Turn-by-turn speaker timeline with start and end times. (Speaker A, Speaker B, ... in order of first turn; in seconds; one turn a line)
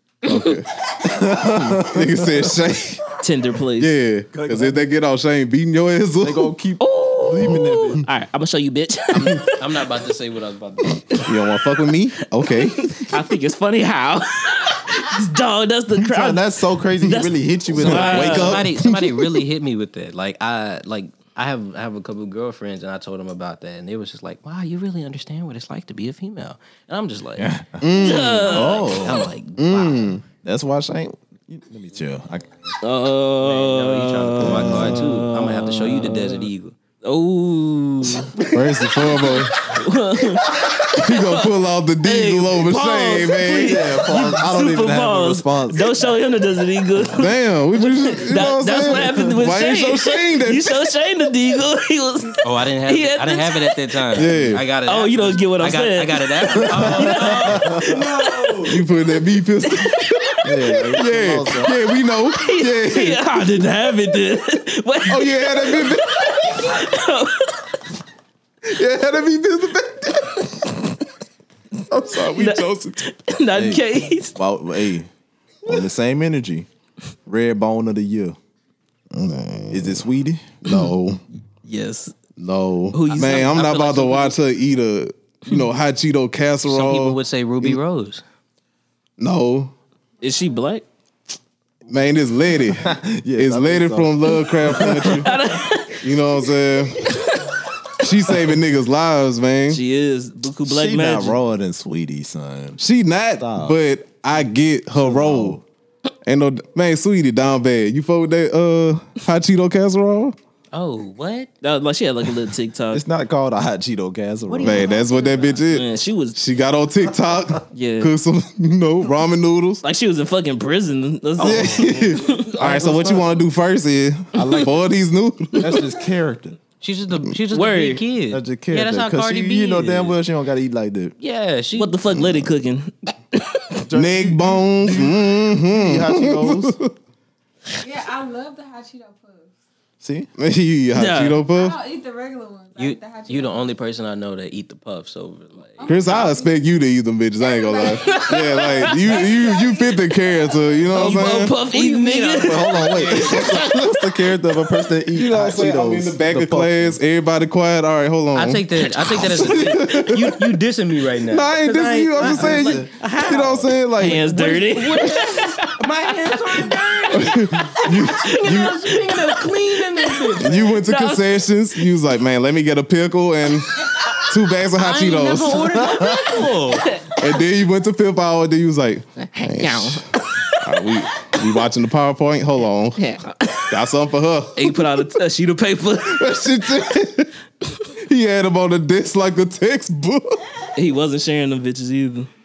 Speaker A: 0.2-3.1
Speaker B: 1.0-2.6
Speaker C: 3.2-3.9
Speaker A: 3.8-6.5
Speaker B: 4.3-4.9
Speaker B: 6.2-8.0
Speaker C: 6.8-10.0
Speaker D: 9.2-11.2
Speaker C: 11.1-11.4
Speaker A: 11.2-13.1
Speaker C: 12.4-18.7
Speaker B: 16.0-18.7
Speaker A: 17.8-19.0
Speaker D: 17.9-27.5
Speaker B: 27.4-29.3
Speaker A: 27.8-28.6
Speaker C: 28.0-28.9
Speaker D: 28.4-30.2
Speaker A: 29.6-30.2
Speaker B: 30.4-32.5
Speaker C: 32.8-36.5
Speaker D: 33.4-36.8
Speaker B: 34.4-35.0
Speaker C: 37.0-38.4
Speaker A: 38.5-39.7
Speaker C: 39.0-41.5
Speaker A: 40.8-43.8
Speaker C: 42.0-54.2
Speaker B: 43.5-46.0
Speaker A: 47.1-50.6
Speaker D: 52.4-58.8
Speaker A: 54.1-54.6
Speaker C: 54.9-57.6
Speaker B: 56.7-58.1
Speaker A: 58.7-60.0
Speaker C: 59.7-60.5
Speaker B: 60.4-61.7
Speaker A: 60.9-63.3
Speaker C: 62.3-67.7
Speaker A: 65.1-66.4
Speaker A: 68.6-70.7
Speaker A: 71.9-73.0
Speaker C: 72.3-74.4
Speaker B: 73.5-75.1
Speaker B: 75.6-76.7
Speaker B: 77.2-78.4
Speaker A: 79.1-80.0
Speaker B: 79.7-80.7
Speaker A: 80.6-81.2
Speaker C: 81.7-82.1
Speaker A: 82.4-87.8
Speaker C: 82.9-83.6
Speaker D: 83.1-84.3
Speaker D: 86.7-88.2
Speaker A: 89.2-89.7
Speaker C: 90.2-90.8
Speaker A: 91.9-95.3
Speaker B: 92.8-95.3
Speaker C: 94.8-96.4
Speaker A: 96.0-97.1
Speaker C: 97.0-97.5
Speaker A: 98.0-99.8
Speaker C: 99.7-101.4
Speaker B: 100.7-102.8
Speaker A: 102.8-105.6
Speaker B: 103.4-103.8
Speaker B: 104.9-105.6
Speaker A: 106.2-110.3
Speaker D: 110.7-111.5
Speaker C: 111.6-113.0
Speaker B: 112.9-114.9
Speaker D: 114.5-115.6
Speaker A: 114.6-119.8
Speaker C: 115.7-116.4
Speaker C: 117.7-118.1
Speaker C: 119.8-122.5
Speaker D: 121.4-122.1
Speaker A: 121.4-125.8
Speaker B: 122.6-123.5
Speaker B: 124.3-124.8
Speaker B: 125.5-126.6
Speaker D: 126.8-130.1
Speaker C: 127.5-128.0
Speaker B: 128.3-131.1
Speaker D: 131.2-132.0
Speaker C: 131.7-133.9
Speaker B: 133.8-136.8
Speaker A: 133.9-136.9
Speaker E: 137.8-139.5
Speaker B: 140.0-140.3
Speaker A: 140.4-141.8
Speaker C: 140.9-141.4
Speaker E: 141.4-143.7
Speaker D: 142.8-146.3
Speaker E: 145.8-146.7
Speaker A: 145.9-151.5
Speaker E: 147.4-151.3
Speaker C: 147.8-149.3
Speaker C: 150.9-153.6
Speaker D: 151.0-152.8
Speaker B: 152.4-157.0
Speaker A: 153.2-153.7
Speaker A: 155.1-160.4
Speaker D: 158.3-170.8
Speaker A: 161.2-164.3
Speaker B: 162.2-162.9
Speaker C: 164.0-167.0
Speaker A: 167.1-168.8
Speaker C: 167.8-171.9
Speaker A: 170.4-176.0
Speaker D: 174.7-176.9
Speaker A: 177.2-180.1
Speaker C: 179.4-181.3
Speaker A: 180.6-183.0
Speaker C: 182.9-183.8
Speaker A: 183.7-184.8
Speaker C: 184.6-186.4
Speaker A: 186.0-187.3
Speaker A: 188.0-190.4
Speaker C: 190.7-192.3